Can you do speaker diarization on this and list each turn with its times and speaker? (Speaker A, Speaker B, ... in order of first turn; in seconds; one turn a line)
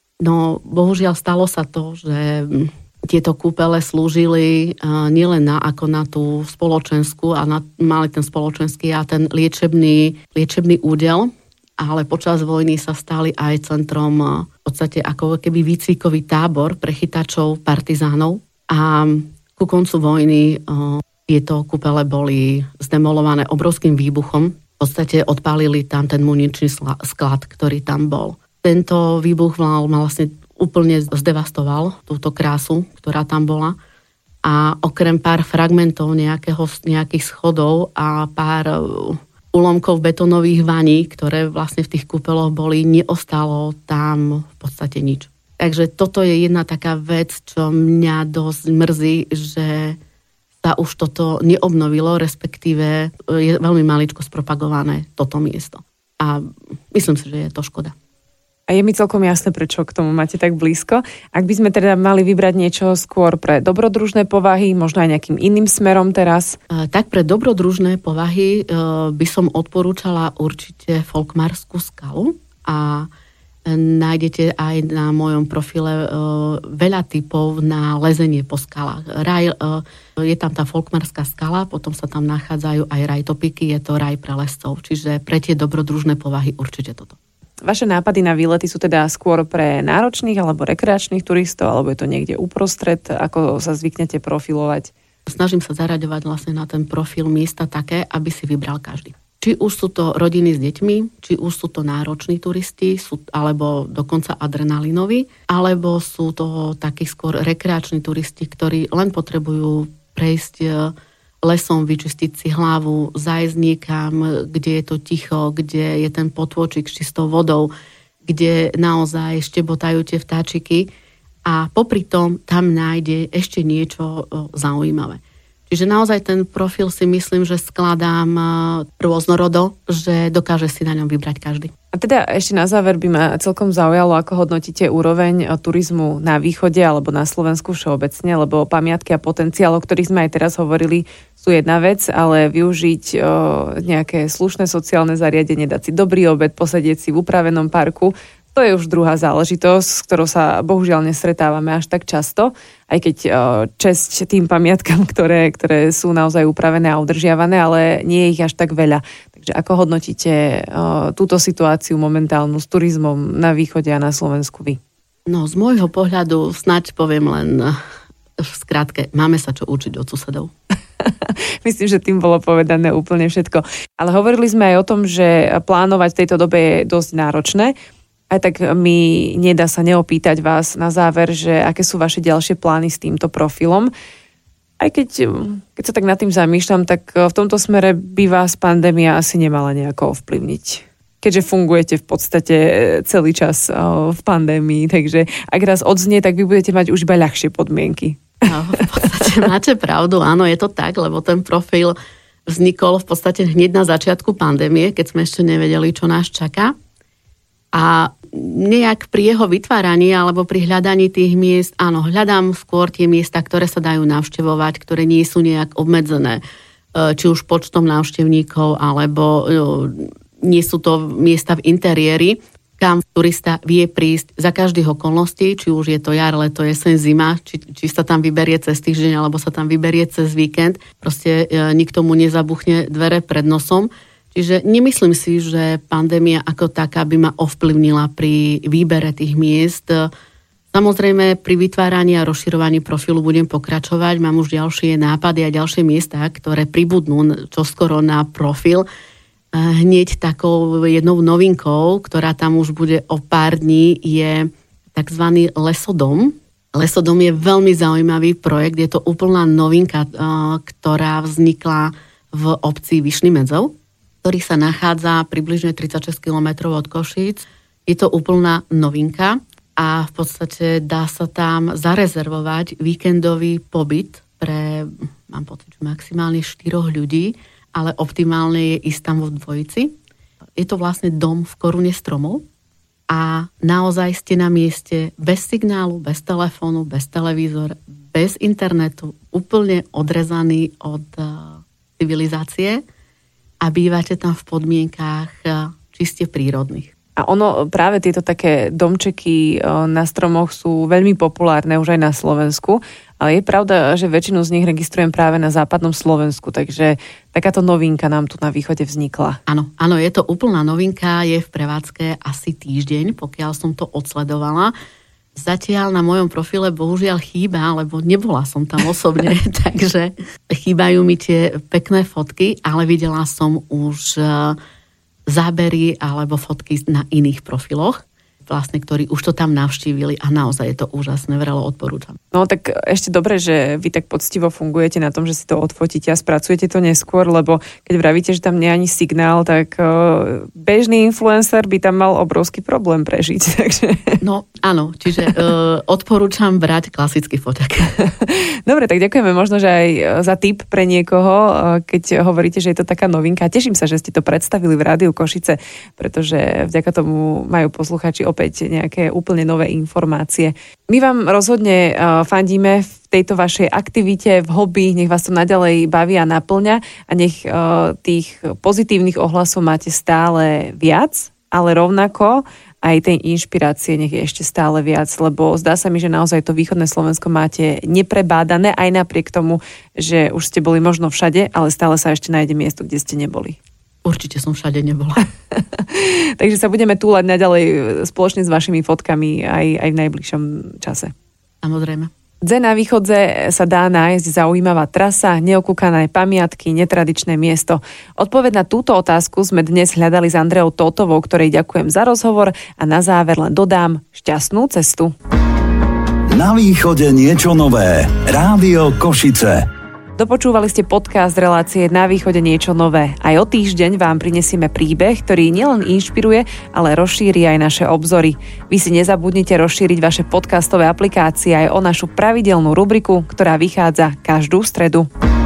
Speaker A: 0.2-33.8
Speaker A: 34.4-50.0
Speaker A: 50.6-58.0
Speaker B: 58.7-66.6
Speaker A: 66.7-73.1
Speaker A: 73.7-87.2
Speaker B: 87.6-94.9
Speaker A: 95.3-117.7
Speaker A: 118.2-120.9
Speaker A: 121.5-131.7
Speaker B: 131.9-164.8
Speaker A: 165.3-167.8
Speaker A: 168.4-170.5
Speaker B: 171.0-177.8
Speaker B: 178.3-183.9
Speaker B: 184.8-198.5
Speaker A: 198.4-206.8
Speaker A: 207.7-216.4
Speaker A: 216.9-240.1
Speaker A: 240.7-248.9
Speaker A: 249.5-263.7
Speaker A: 264.2-279.9
Speaker A: 280.6-282.4
Speaker A: 283.1-292.8
Speaker A: 293.6-296.9
Speaker B: 297.2-309.4
Speaker A: 309.5-314.7
Speaker A: 315.4-324.6
Speaker A: 325.3-332.2
Speaker B: 332.3-344.2
Speaker A: 344.2-348.0
Speaker B: 348.0-383.6
Speaker A: 384.1-385.2
Speaker B: 385.5-391.1
Speaker A: 391.6-392.1
Speaker B: 392.4-405.1
Speaker C: 406.3-409.7
Speaker B: 410.2-425.1